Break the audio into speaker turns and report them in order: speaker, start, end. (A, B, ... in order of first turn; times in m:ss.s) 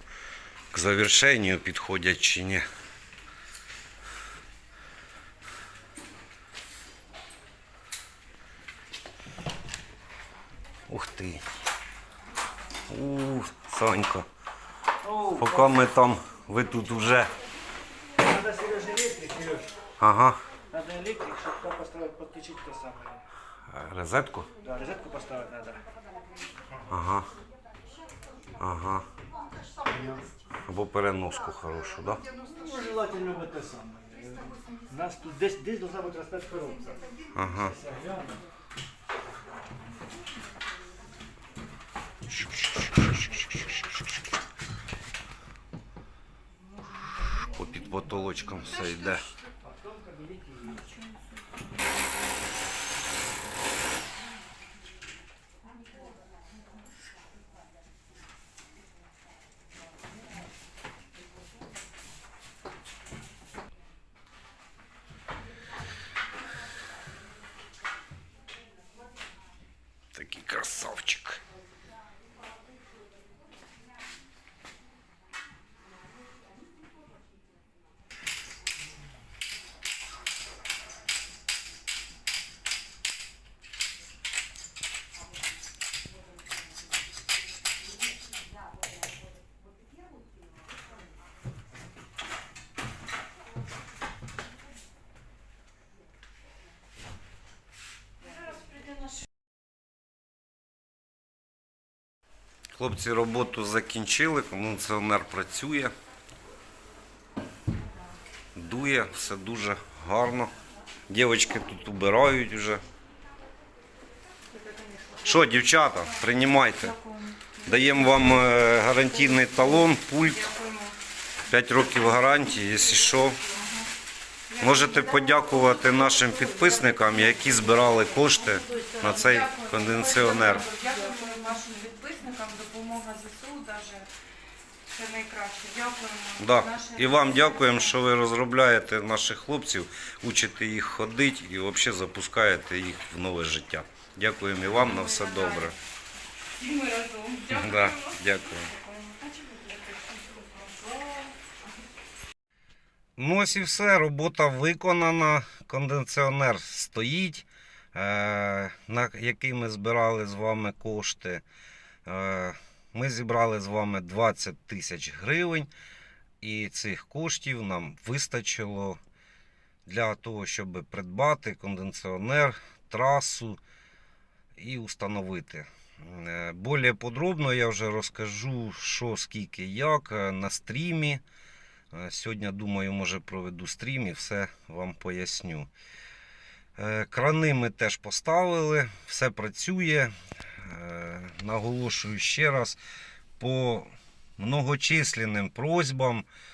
0:00.7-0:02.6 A
0:10.9-0:11.4 A
0:12.9-0:14.3 A
0:15.0-0:15.7 B
0:15.4-0:17.3 A
0:18.2-0:19.7 B
0:20.0-0:20.4 A
0:20.7-0:23.2 B
0:23.7-0:24.5 A
0:24.6-0:25.8 B
0:26.9-0:27.3 A
0:28.6-0:29.1 A
0:29.8-0:30.2 B
0:30.6-0:32.2 A
0:32.5-0:36.9 B
0:37.3-0:37.8 A
0:37.6-0:38.4 B
0:42.3-0:43.8 A
0:47.5-0:49.2 A
0:50.1-0:50.5 B
1:10.1-1:11.4 A
1:38.5-1:38.8 C
1:42.7-1:45.9 A
1:48.5-1:50.5 A
1:51.1-1:52.8 A
1:54.5-1:55.2 C
1:55.2-1:57.0 A
1:57.0-1:57.5 C
1:57.6-2:00.5 A
2:00.5-2:00.9 C
2:01.5-2:03.4 A
2:03.5-2:03.9 C
2:04.6-2:10.7 A
2:09.3-2:14.1 C
2:14.9-2:16.9 C
2:16.4-2:25.8 A
2:25.2-2:25.7 C
2:26.5-2:28.0 C
2:27.4-2:28.7 A
2:28.7-2:31.3 C
2:33.2-2:41.4 A
2:42.0-2:45.7 A
2:46.4-2:49.0 A
2:49.8-2:53.6 A
2:54.6-3:01.2 A
3:01.9-3:05.7 A
3:06.8-3:12.8 A
3:13.4-3:16.2 A